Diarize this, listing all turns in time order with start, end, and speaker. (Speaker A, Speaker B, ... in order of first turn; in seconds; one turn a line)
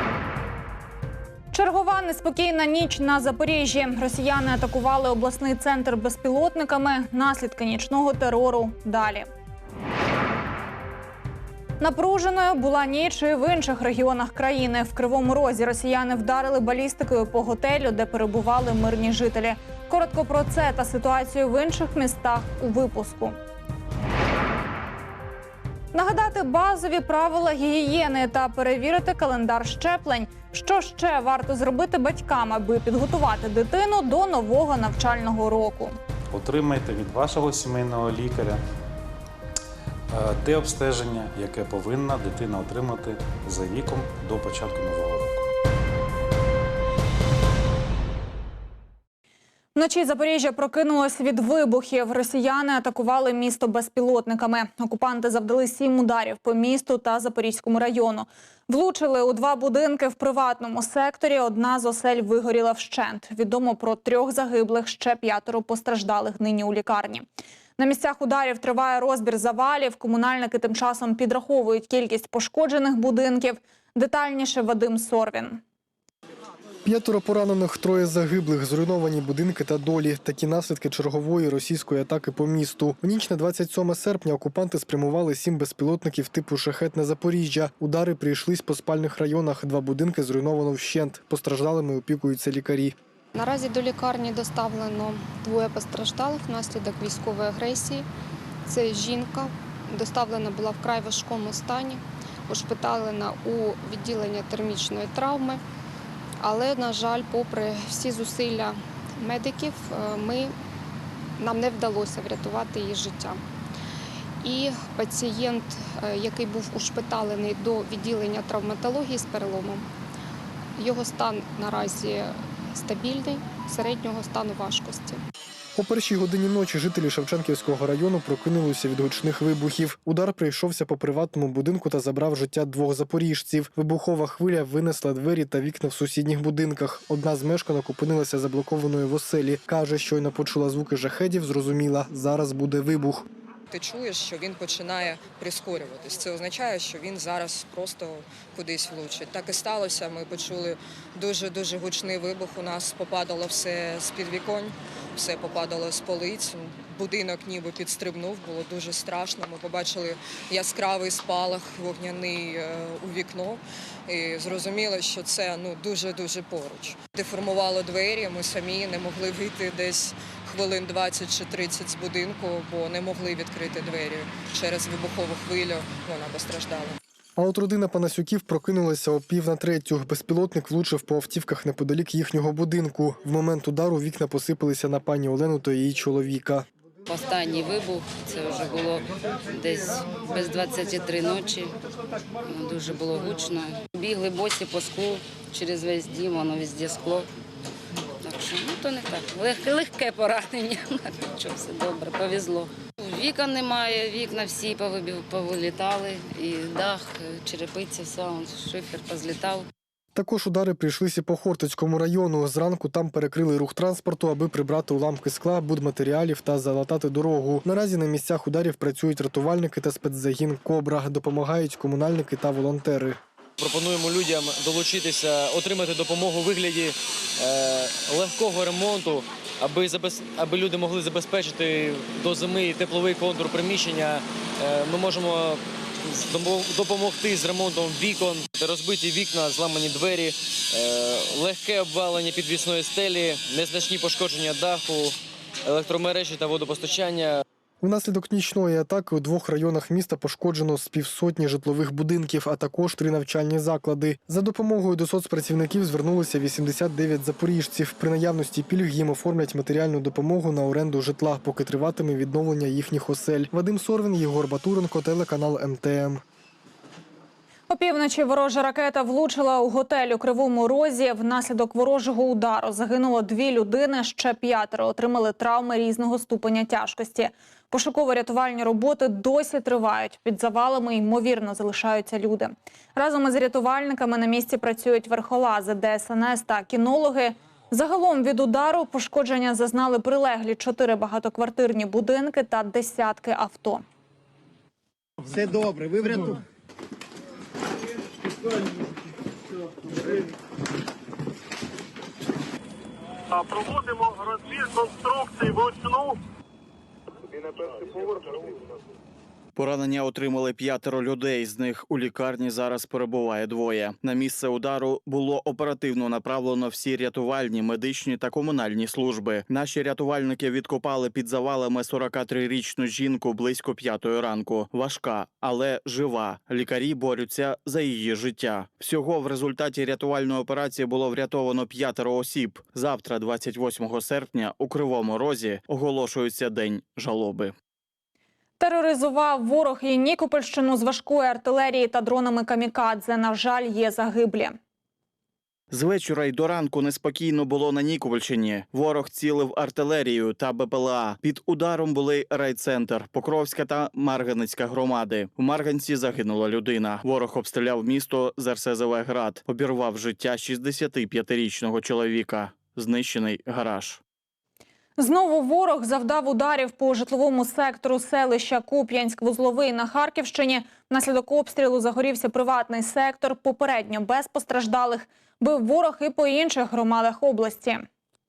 Speaker A: 1.5-9.3
Speaker A: 11.8-23.4
Speaker A: 25.9-35.9
Speaker B: 36.3-38.6
Speaker B: 40.1-45.5
Speaker A: 49.8-67.2
Speaker A: 67.8-75.6
Speaker C: 76.8-93.0
Speaker D: 93.3-98.0
Speaker D: 98.7-105.6
Speaker D: 106.4-110.5
Speaker D: 111.4-113.4
Speaker D: 114.4-119.8
Speaker D: 120.8-125.2
Speaker C: 125.8-143.3
Speaker E: 143.7-177.0
Speaker C: 177.4-186.7
Speaker F: 187.1-191.8
Speaker F: 192.4-197.3
Speaker F: 198.2-209.7
Speaker C: 210.2-223.2
Speaker G: 223.6-247.4
Speaker C: 247.8-266.2
Speaker A: 267.7-293.8
Speaker H: 309.6-337.5
Speaker A: 338.6-344.6
Speaker H: 345.7-364.0
Speaker A: 365.0-377.9